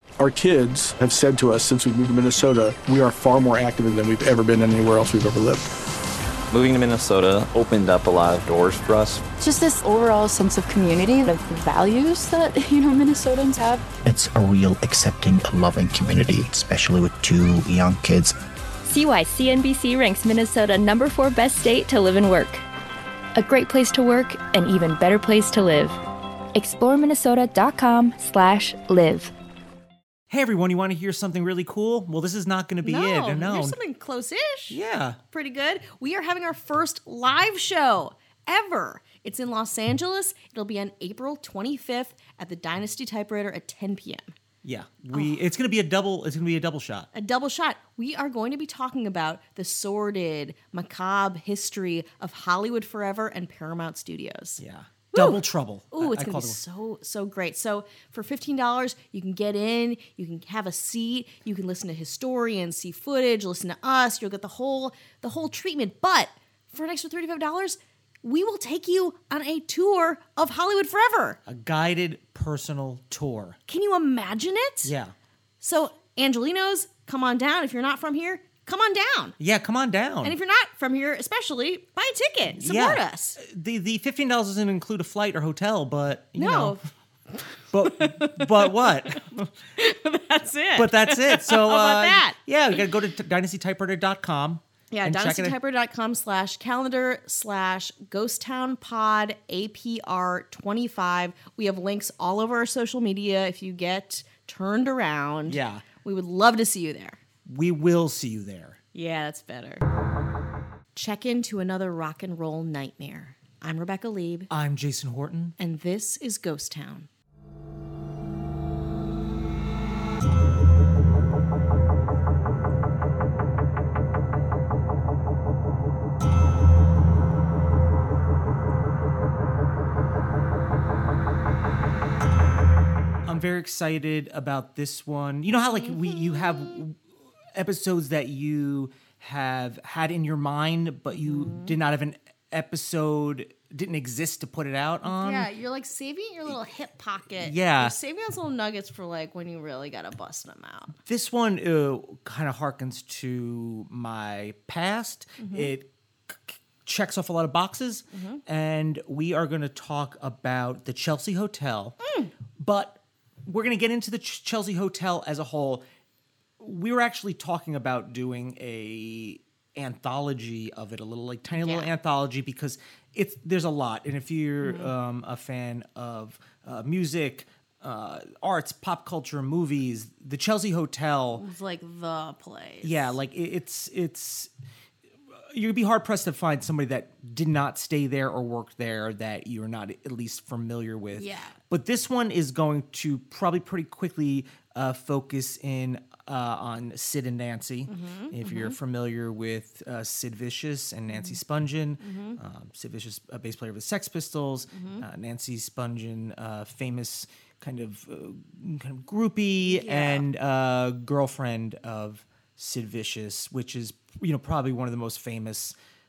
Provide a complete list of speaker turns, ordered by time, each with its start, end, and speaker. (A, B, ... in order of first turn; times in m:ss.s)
0:00.2-0:05.7 A
0:06.5-0:09.2 B
0:09.4-0:13.9 C
0:14.0-0:18.4 D
0:18.8-0:22.6 E
0:23.3-0:26.0 E
0:26.5-0:29.3 E
0:30.3-0:33.8 F
0:32.8-0:34.8 G
0:34.7-0:35.2 F
0:35.3-0:44.3 G
0:44.6-0:47.1 F
0:47.1-0:54.6 G
0:54.6-0:56.6 F
0:55.1-1:11.4 G
1:11.5-1:13.6 F
1:13.7-1:14.9 G
1:14.8-1:15.1 F
1:15.6-1:19.4 G
1:19.4-1:20.4 F
1:20.2-1:23.4 G
1:22.5-1:26.8 F
1:26.3-1:29.2 G
1:27.7-1:29.5 F
1:29.8-1:32.4 G
1:30.8-1:35.6 F
1:34.9-1:47.2 G
1:45.4-1:45.8 F
1:47.4-1:48.8 F
1:48.9-1:49.8 G
1:50.9-1:54.5 G
1:54.5-1:55.6 F
1:55.6-1:57.1 G
2:13.2-2:17.0 F
2:15.7-2:16.8 G
2:17.5-2:25.5 F
2:21.1-2:21.8 G
2:25.0-2:31.0 G
2:27.4-2:27.9 F
2:31.1-2:42.0 F
2:35.4-2:35.7 G
2:38.1-2:38.4 G
2:42.0-2:42.3 G
2:42.6-2:45.8 F
2:46.6-3:01.4 F
2:51.5-2:51.9 G
2:54.6-2:54.9 G
3:01.4-3:03.2 G
3:02.8-3:04.5 F
3:05.5-3:35.7 F
3:11.2-3:11.6 G
3:17.9-3:18.8 G
3:21.1-3:21.4 G
3:22.0-3:22.4 G
3:24.7-3:25.0 G
3:29.6-3:30.2 G